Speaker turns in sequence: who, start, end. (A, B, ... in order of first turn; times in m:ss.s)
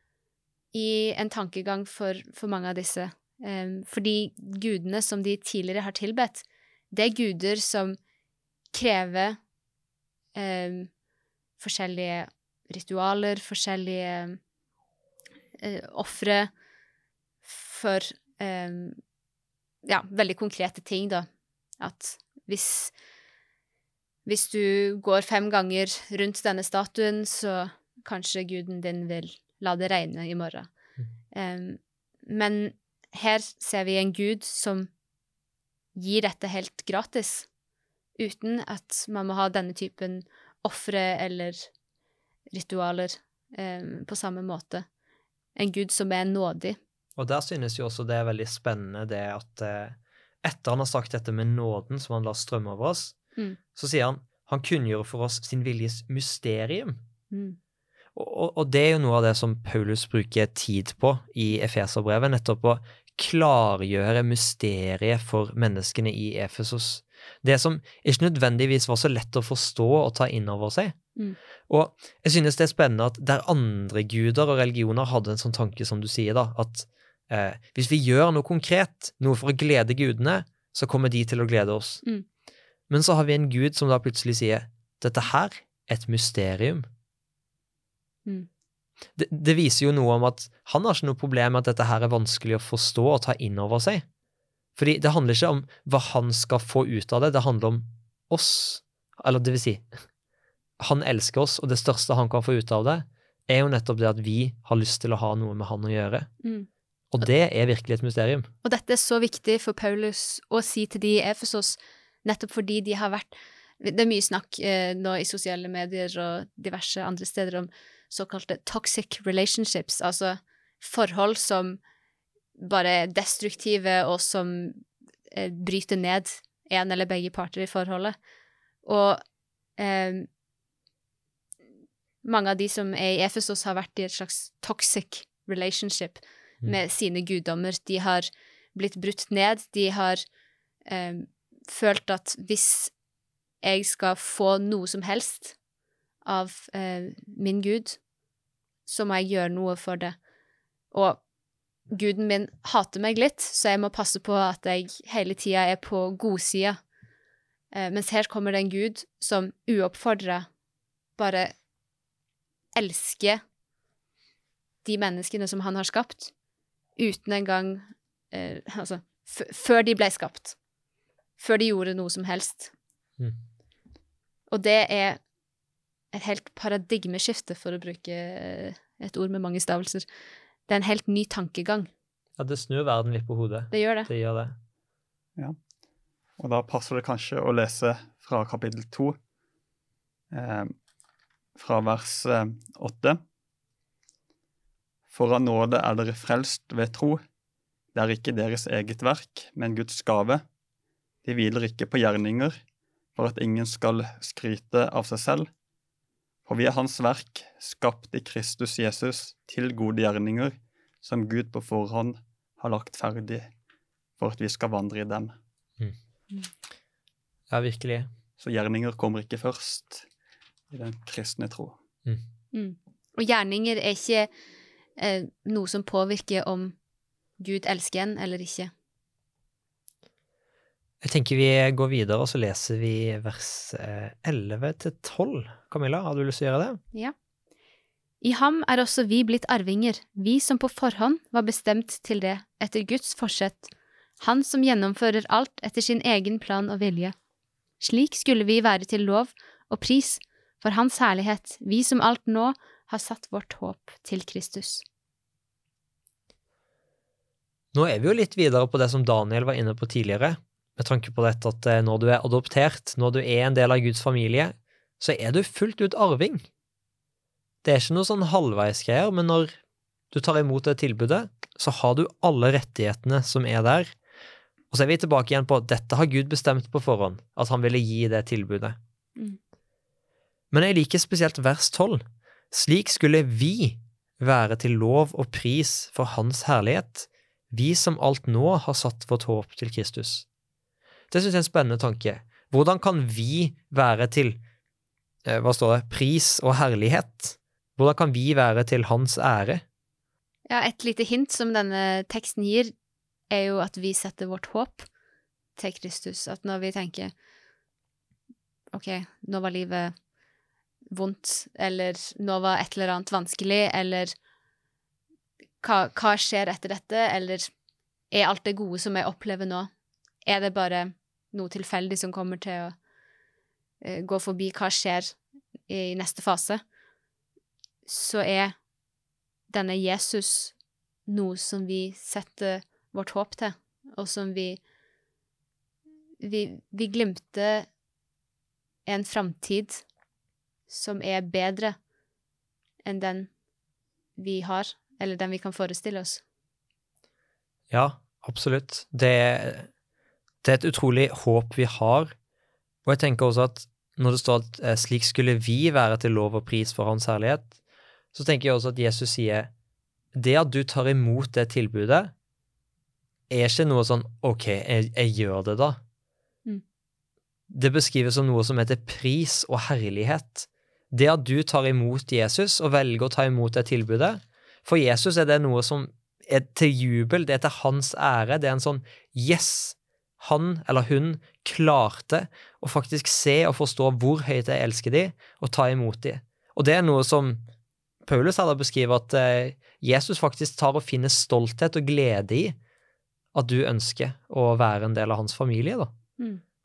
0:00.7-0:08.0 A
0:08.7-0:09.4 A
0:10.4-0:10.9 A
0:11.6-0:14.4 A
0:15.6-0:16.5 A
0:17.5-0:19.0 A
0:19.8-0:21.3 A
0:21.8-0:22.9 A
0:24.3-0:30.7 A
0:31.3-0:34.9 A
0:36.0-0:37.5 A
0:38.2-0:41.7 A
0:42.5-0:44.9 A
0:45.6-0:46.8 A
0:47.2-0:53.2 B
0:53.8-0:57.0 B
0:57.3-0:57.6 A
0:58.2-1:11.0 B
1:11.7-1:22.0 B
1:22.9-1:26.9 B
1:29.2-1:34.0 B
1:34.8-1:39.9 B
1:40.8-1:46.3 B
1:46.4-1:46.7 A
1:47.1-1:48.5 B
1:48.6-2:01.8 A
2:02.6-2:08.2 A
2:08.8-2:09.2 A
2:09.8-2:10.3 A
2:12.2-2:20.2 A
2:20.9-2:22.9 A
2:23.6-2:25.6 A
2:26.2-2:28.0 A
2:28.9-2:30.2 A
2:30.9-2:31.2 A
2:31.9-2:36.8 A
2:37.7-2:40.5 A
2:41.2-2:41.5 A
2:42.7-2:43.4 A
2:44.8-2:46.3 A
2:47.0-2:50.6 A
2:51.4-2:52.7 A
2:54.5-2:55.2 A
2:56.1-3:00.1 A
3:00.7-3:01.9 A
3:02.4-3:04.6 B
3:03.7-3:04.1 A
3:06.4-3:09.2 C
3:10.3-3:10.7 C
3:11.6-3:13.2 C
3:15.1-3:17.2 C
3:17.9-3:20.4 C
3:21.2-3:22.6 C
3:23.2-3:25.5 C
3:26.5-3:33.5 C
3:34.2-3:35.3 C
3:37.5-3:38.1 B
3:38.4-3:40.1 C
3:40.7-3:41.8 C
3:42.5-3:44.3 A
3:45.0-3:46.8 A
3:47.4-3:48.7 A
3:51.0-3:56.8 B
3:58.2-4:07.1 A
4:07.8-4:14.8 A
4:17.7-4:26.4 B
4:27.6-4:29.6 B
4:30.1-4:33.9 B
4:34.7-4:38.8 B
4:40.5-4:50.2 B
4:51.1-4:54.4 B
4:55.3-4:59.6 B
5:00.5-5:02.7 A
5:03.3-5:04.9 A
5:05.6-5:07.1 A
5:08.7-5:09.9 A
5:10.9-5:14.2 A
5:15.6-5:17.5 A
5:18.1-5:19.7 A
5:20.2-5:22.8 A
5:23.8-5:25.2 A
5:25.7-5:26.6 A
5:27.9-5:28.6 A
5:29.5-5:30.5 A
5:31.1-5:34.6 A
5:36.2-5:37.7 A
5:38.9-5:39.8 A
5:40.7-5:41.8 A
5:42.8-5:43.3 A
5:44.2-5:46.2 A
5:47.7-5:49.7 B
5:50.4-5:52.2 B
5:52.8-5:57.5 B
5:58.1-5:59.5 B
6:00.2-6:02.1 B
6:03.3-6:05.8 B
6:07.5-6:27.4 B
6:28.1-6:32.6 B
6:33.3-6:35.9 B